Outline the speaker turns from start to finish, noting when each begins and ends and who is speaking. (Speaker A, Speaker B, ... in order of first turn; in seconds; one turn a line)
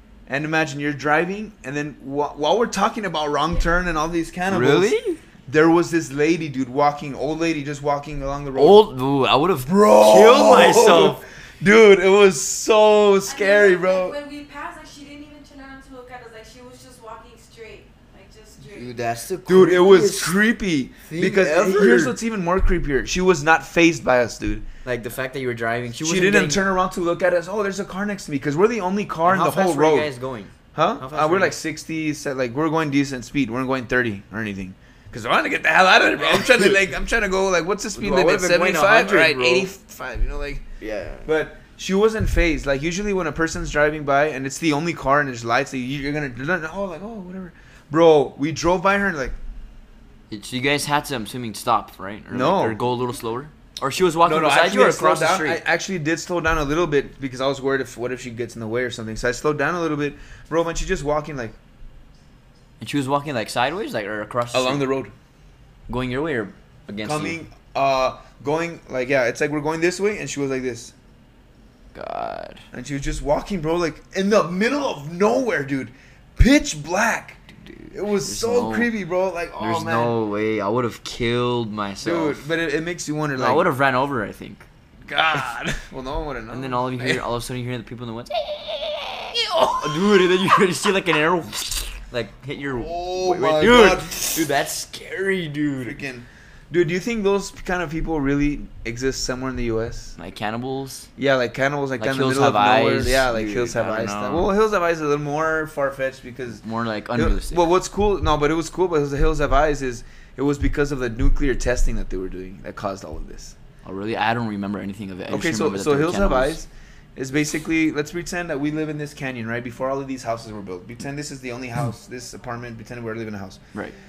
Speaker A: 0.3-5.0
Speaker B: 4.5-5.2
Speaker A: 5.5-8.8
Speaker B: 8.6-11.2
Speaker A: 9.6-14.2
Speaker C: 13.3-18.9
Speaker B: 18.6-20.4
Speaker A: 19.5-24.7
Speaker B: 21.0-22.2
Speaker B: 24.9-26.6
Speaker A: 26.0-30.1
Speaker B: 29.3-31.6
Speaker A: 30.7-40.6
Speaker B: 36.2-36.7
Speaker B: 38.0-39.7
Speaker B: 40.8-41.3
Speaker A: 41.2-49.4
Speaker B: 50.3-55.6
Speaker A: 52.3-52.8
Speaker A: 54.2-61.6
Speaker B: 62.8-64.9
Speaker A: 64.5-65.1
Speaker B: 65.9-67.4
Speaker A: 67.0-70.9
Speaker B: 71.9-72.7
Speaker A: 72.7-80.2
Speaker B: 77.5-78.9
Speaker B: 79.6-82.5
Speaker A: 82.0-83.7
Speaker B: 83.4-84.7
Speaker A: 85.1-87.2
Speaker B: 86.5-88.3
Speaker A: 88.4-90.2
Speaker B: 89.8-96.0
Speaker A: 92.7-94.5
Speaker A: 95.8-100.2
Speaker B: 100.2-101.1
Speaker A: 101.2-106.6
Speaker B: 102.0-104.5
Speaker B: 106.6-107.7
Speaker A: 107.2-113.6
Speaker B: 113.8-116.6
Speaker A: 115.3-123.7